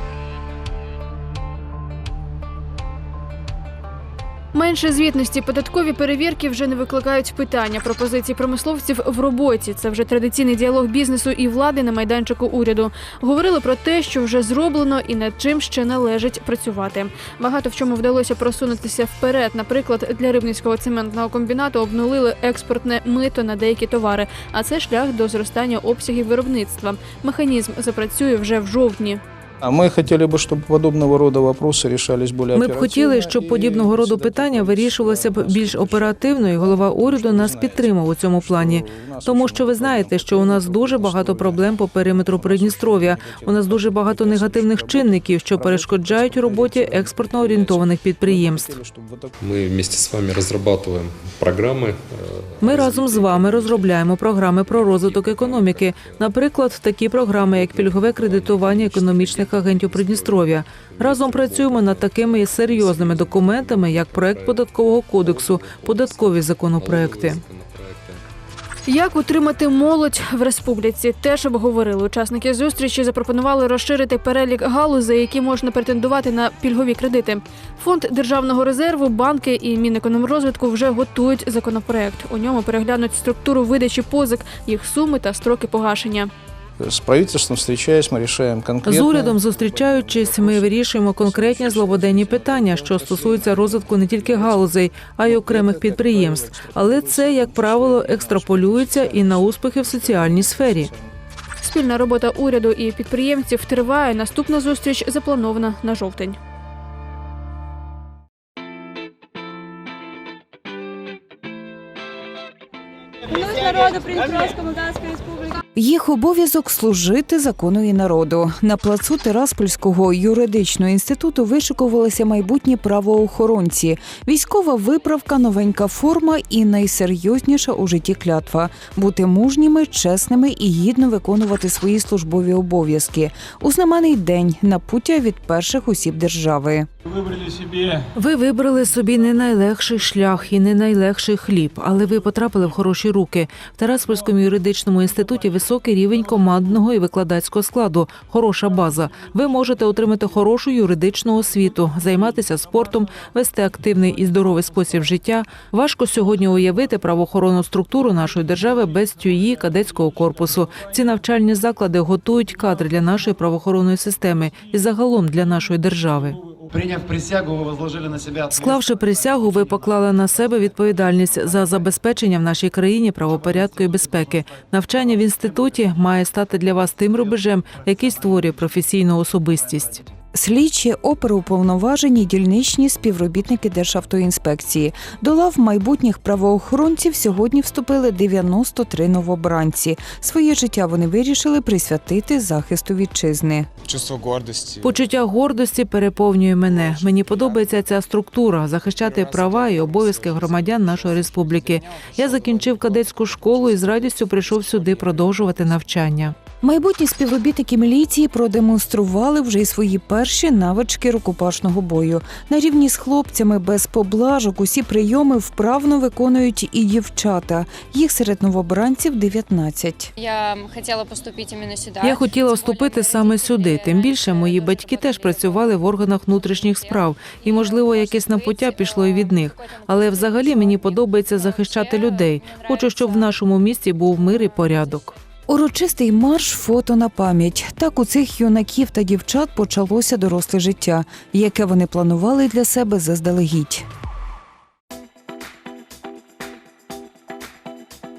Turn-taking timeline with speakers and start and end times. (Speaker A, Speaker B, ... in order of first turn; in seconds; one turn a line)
Speaker A: 4.5-29.2
Speaker B: 29.6-49.3
Speaker C: 32.5-48.8
Speaker D: 49.4-56.3
Speaker C: 52.6-67.4
Speaker D: 57.3-68.2
Speaker A: 68.9-86.3
Speaker B: 86.8-94.6
Speaker C: 88.8-100.9
Speaker B: 95.2-101.0
Speaker A: 101.6-106.4
Speaker E: 115.7-136.9
Speaker C: 138.1-166.4
Speaker F: 166.7-169.0
Speaker C: 168.5-180.0
Speaker E: 180.3-193.7
Speaker C: 194.8-206.3
Speaker F: 203.8-205.5
Speaker E: 206.6-220.1
Speaker G: 220.2-222.1
Speaker C: 222.0-235.1
Speaker G: 222.7-223.2
Speaker E: 235.5-243.8